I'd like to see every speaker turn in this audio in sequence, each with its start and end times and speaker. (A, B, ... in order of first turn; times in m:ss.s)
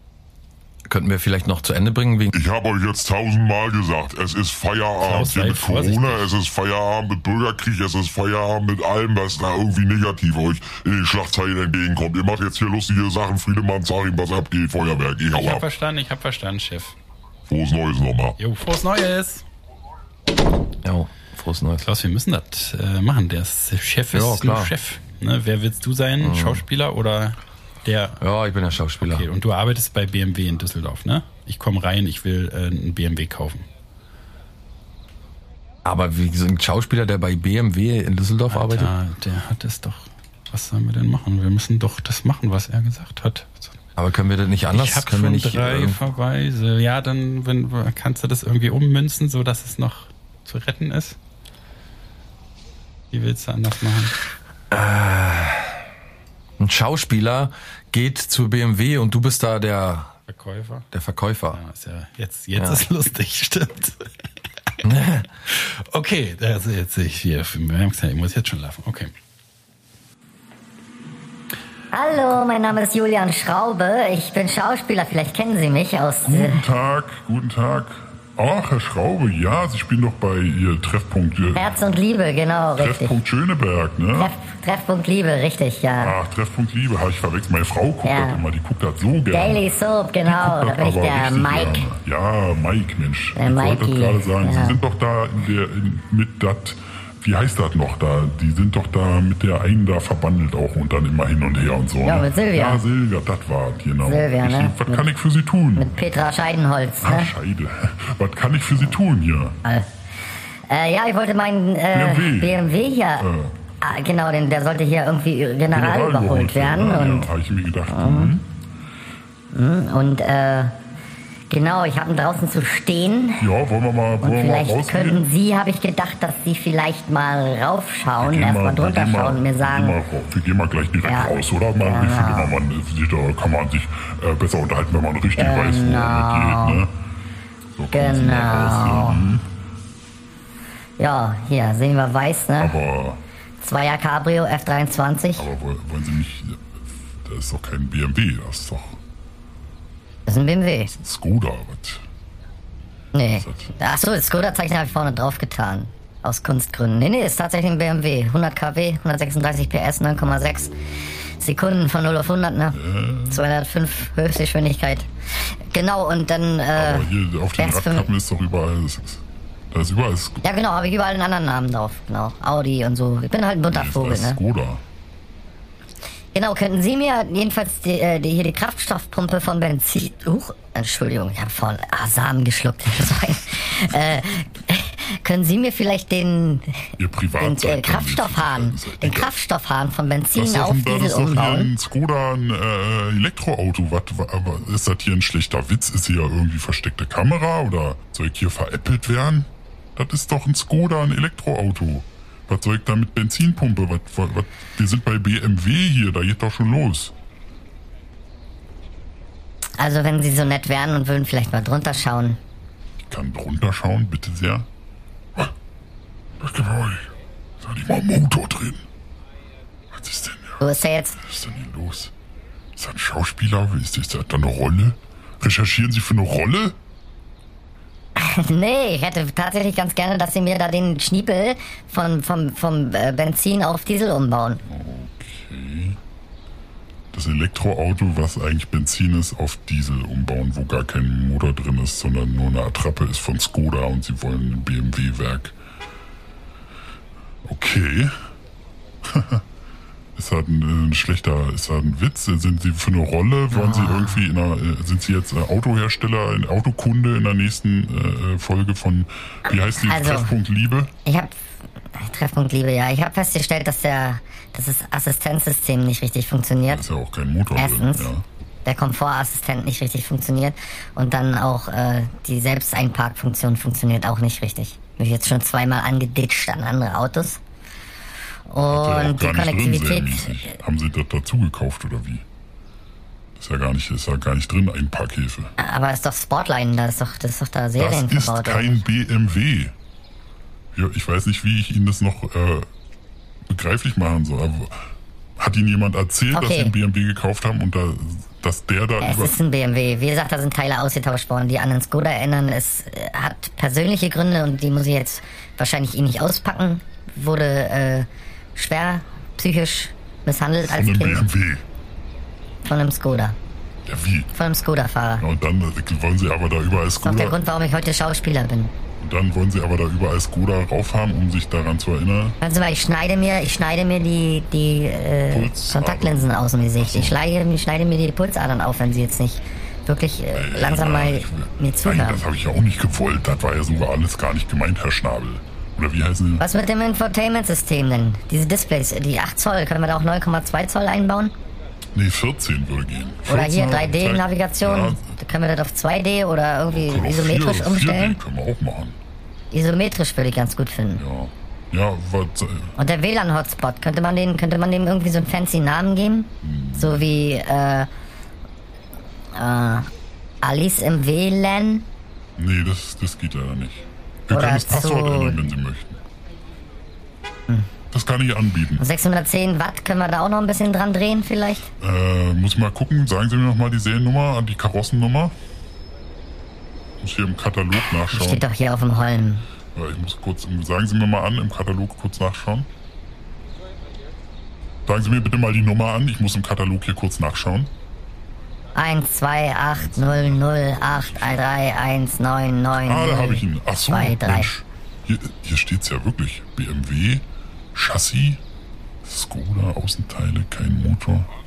0:00.9-0:02.3 A
0:02.3-0:15.6 B
0:05.0-0:06.3 C
0:15.3-0:17.0 C
0:17.5-0:18.4 B
0:18.4-0:19.4 C
0:20.8-0:21.9 A
0:21.8-0:28.2 C
0:24.1-0:24.7 A
0:26.2-0:26.6 A
0:28.2-0:29.3 A
0:29.0-0:33.7 C
0:35.8-0:38.9 A
0:38.5-0:43.7 C
0:44.0-0:46.0 A
0:44.7-0:51.2 C
0:53.1-0:54.2 C
0:54.7-0:55.8 A
0:56.6-1:00.1 A
1:00.3-1:00.9 C
1:00.9-1:01.6 A
1:01.5-1:04.0 C
1:04.8-1:05.3 A
1:05.5-1:09.1 C
1:11.9-1:16.6 D
1:16.2-1:21.7 E
1:21.6-1:23.1 D
1:22.8-1:24.4 E
1:24.1-1:26.2 D
1:26.0-1:29.6 E
1:28.0-1:28.4 D
1:29.3-1:31.9 D
1:30.3-1:45.9 E
1:33.4-1:34.8 D
1:42.0-1:42.8 D
1:44.1-1:45.1 D
1:45.8-1:47.3 D
1:47.0-1:49.6 E
1:50.7-1:53.3 D
1:51.9-1:52.6 E
1:53.2-1:53.5 E
1:53.8-1:57.3 D
1:55.7-1:58.5 E
1:57.9-1:58.3 D
1:59.5-2:00.8 D
2:01.5-2:03.5 D
2:03.4-2:05.2 E
2:04.2-2:10.0 D
2:08.2-2:16.9 E
2:11.1-2:12.6 D
2:15.4-2:16.8 D
2:17.8-2:19.5 E
2:17.9-2:19.3 D
2:21.0-2:22.8 D
2:22.6-2:23.2 E
2:23.6-2:25.5 D
2:25.4-2:29.0 E
2:30.3-2:30.9 D
2:30.9-2:32.0 E
2:33.1-2:40.7 D
2:33.3-2:33.7 E
2:41.4-2:42.8 D
2:42.7-2:43.5 E
2:43.3-2:45.1 D
2:45.7-2:48.1 D
2:46.8-2:50.4 E
2:50.4-2:54.4 D
2:53.7-2:54.8 E
2:56.4-3:11.7 D
3:07.0-3:09.4 E
3:10.3-3:27.1 E
3:29.8-3:32.4 D
3:33.1-3:34.7 E
3:36.4-3:38.8 E
3:39.9-3:40.6 E
3:40.6-3:41.2 D
3:41.2-3:42.1 E
3:42.8-3:46.8 E
3:48.2-3:54.6 D
3:54.7-3:56.0 E
3:57.1-4:05.6 E
4:07.4-4:08.1 E
4:09.0-4:09.4 E
4:10.2-4:20.9 E
4:13.5-4:14.2 D
4:19.8-4:20.3 D
4:21.1-4:21.4 D
4:22.0-4:26.8 D
4:26.7-4:28.2 E
4:27.6-4:28.1 D
4:28.6-4:37.4 D
4:38.5-4:40.4 D
4:38.7-4:42.2 E
4:43.4-4:45.5 E
4:45.6-4:48.8 D
4:47.8-4:49.7 E
4:50.7-4:52.7 E
4:53.5-4:54.9 E
4:55.4-4:59.4 E
4:56.3-4:56.7 D
4:59.0-5:11.2 D
5:10.7-5:11.6 E
5:12.6-5:13.4 D
5:13.9-5:14.3 E
5:14.4-5:15.2 D
5:15.2-5:17.4 E
5:17.0-5:18.7 D
5:19.0-5:22.4 E
5:22.4-5:32.2 D
5:25.3-5:27.2 E
5:30.3-5:36.4 E
5:36.4-5:41.3 D
5:41.9-5:45.1 E
5:43.3-5:48.2 D
5:46.7-5:49.0 E
5:49.5-5:51.0 D
5:51.0-5:52.7 E
5:52.8-5:57.9 D
5:56.4-5:57.1 E
5:59.4-5:59.9 D
6:00.4-6:01.9 D
6:02.4-6:06.0 E
6:04.3-6:05.4 D
6:07.9-6:08.8 E
6:08.8-6:11.7 D
6:11.8-6:15.4 E
6:17.0-6:18.5 E
6:18.1-6:19.5 D
6:19.8-6:22.7 E
6:24.9-6:27.7 E
6:28.8-6:34.5 D
6:29.8-6:31.4 E
6:32.8-6:38.4 E
6:39.0-6:41.3 E